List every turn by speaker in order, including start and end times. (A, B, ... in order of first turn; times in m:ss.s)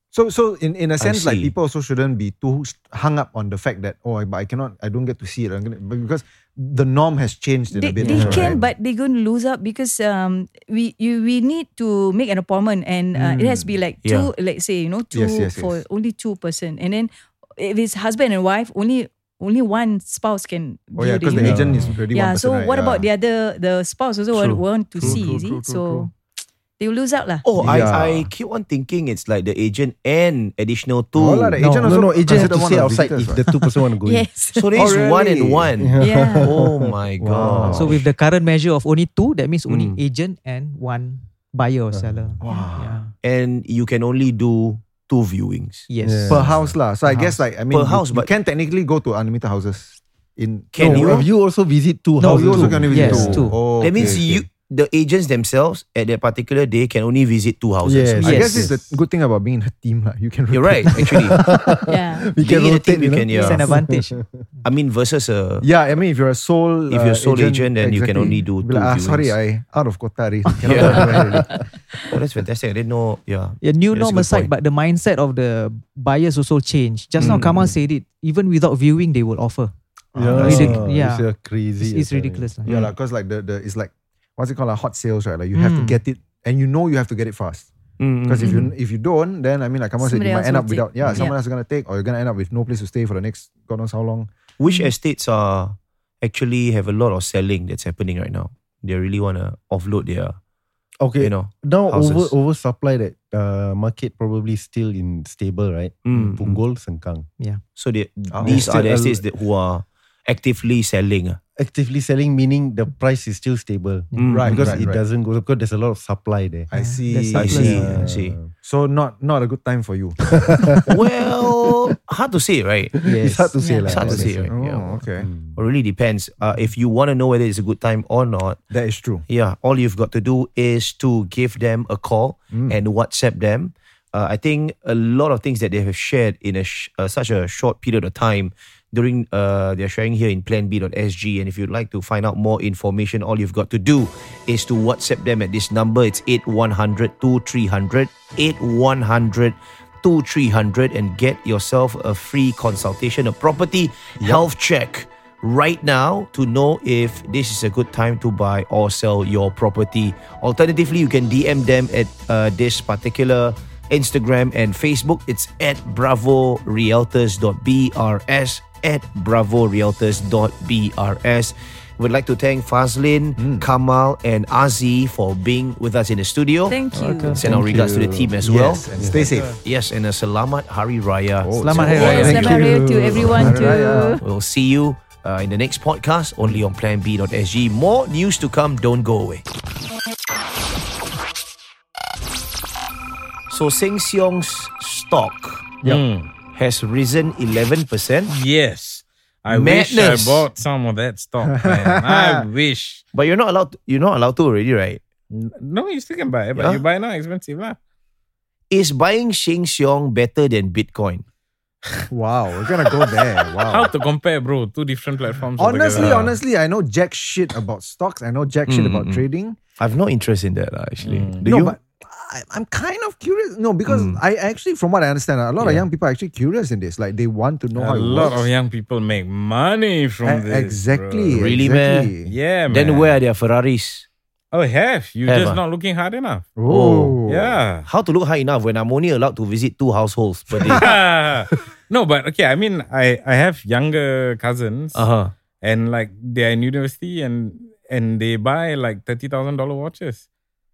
0:00.1-0:08.6 A
0:01.0-0:01.5 B
0:07.7-0:26.1 C
0:08.1-0:08.6 D
0:13.2-0:13.7 A
0:14.0-0:14.3 B
0:15.1-0:15.8 A
0:21.0-0:23.1 A
0:21.4-0:22.0 D
0:24.4-0:25.1 B
0:25.0-0:26.1 A
0:26.8-0:27.5 C
0:27.4-0:31.6 B
0:27.6-0:28.3 A
0:31.2-0:33.4 A
0:31.6-0:32.6 E
0:31.6-0:34.3 D
0:34.0-0:34.8 C
0:34.6-0:38.0 B
0:34.8-0:35.7 A
0:35.8-0:37.9 D
0:36.0-0:36.5 C
0:37.2-0:38.0 A
0:37.7-0:43.1 E
0:39.7-0:40.0 B
0:41.9-0:42.4 D
0:42.4-0:43.0 A
0:43.2-0:45.9 B
0:45.9-0:47.4 E
0:46.0-0:46.7 D
0:46.3-0:51.3 A
0:47.7-0:48.3 B
0:50.7-0:51.3 B
0:50.8-0:54.3 D
0:52.2-0:53.6 E
0:52.2-0:54.4 A
0:53.1-0:58.2 B
0:57.8-0:59.0 D
0:58.2-1:01.5 A
0:58.2-0:58.6 E
1:00.5-1:01.4 B
1:01.0-1:04.2 D
1:01.9-1:02.4 C
1:02.4-1:03.4 A
1:02.4-1:03.6 B
1:03.3-1:04.2 E
1:04.6-1:05.7 B
1:05.6-1:11.5 A
1:06.9-1:09.4 B
1:10.6-1:11.4 B
1:10.8-1:11.3 D
1:12.1-1:14.5 B
1:13.6-1:19.7 E
1:17.2-1:17.7 B
1:20.1-1:20.8 A
1:20.2-1:22.6 D
1:20.4-1:22.7 E
1:20.4-1:20.8 B
1:22.7-1:22.9 B
1:22.7-1:27.7 A
1:25.5-1:26.0 E
1:28.0-1:28.7 B
1:28.2-1:34.3 A
1:30.0-1:31.4 C
1:34.6-1:40.4 B
1:41.0-1:47.3 D
1:41.2-1:42.3 B
1:46.0-1:46.6 B
1:47.8-1:51.4 B
1:48.3-1:48.8 A
1:48.4-1:49.2 D
1:51.6-1:56.7 D
1:54.1-1:54.5 E
1:54.2-1:54.8 B
1:54.3-1:55.0 A
1:56.7-1:58.0 A
1:56.7-1:58.0 E
1:57.4-1:58.4 B
1:57.4-1:58.5 D
1:58.6-2:00.9 A
2:00.9-2:03.0 B
2:03.0-2:04.3 E
2:03.1-2:05.6 D
2:03.6-2:04.0 C
2:03.8-2:04.8 B
2:04.5-2:05.3 A
2:05.5-2:08.6 B
2:08.7-2:09.3 A
2:09.3-2:56.8 B
2:12.5-2:12.8 A
2:53.4-2:53.7 A
2:56.7-2:57.4 C
2:56.9-2:57.6 E
2:57.3-2:59.4 D
2:57.3-2:58.9 B
2:58.4-2:59.6 A
2:59.2-2:59.6 E
2:59.6-3:02.6 B
3:01.4-3:04.2 A
3:01.6-3:03.3 E
3:01.9-3:04.2 C
3:02.8-3:03.7 D
3:04.2-3:09.4 B
3:13.5-3:15.8 B
3:15.8-3:16.3 F
3:16.5-3:18.3 B
3:18.3-3:23.0 F
3:19.5-3:20.5 B
3:21.5-3:22.5 A
3:23.1-3:25.0 B
3:25.3-3:27.8 F
3:26.6-3:26.8 B
3:28.7-3:31.2 B
3:32.1-3:33.9 A
3:33.7-3:36.3 F
3:35.6-3:39.6 A
3:36.0-3:36.3 B
3:38.7-3:39.2 B
3:39.8-3:41.8 B
3:41.0-3:41.4 F
3:41.4-3:48.5 A
3:43.9-3:44.2 B
3:45.6-3:45.9 B
3:47.8-3:51.4 F
3:50.2-3:52.3 A
3:51.3-3:52.1 B
3:52.2-3:53.2 F
3:52.7-3:54.1 B
3:54.5-3:56.6 F
3:55.3-3:55.6 B
3:56.6-3:57.6 A
3:56.7-3:57.2 B
3:57.3-3:57.9 F
3:57.8-4:00.9 B
4:00.5-4:00.8 A
4:00.7-4:05.0 F
4:05.0-4:05.3 B
4:05.6-4:10.2 F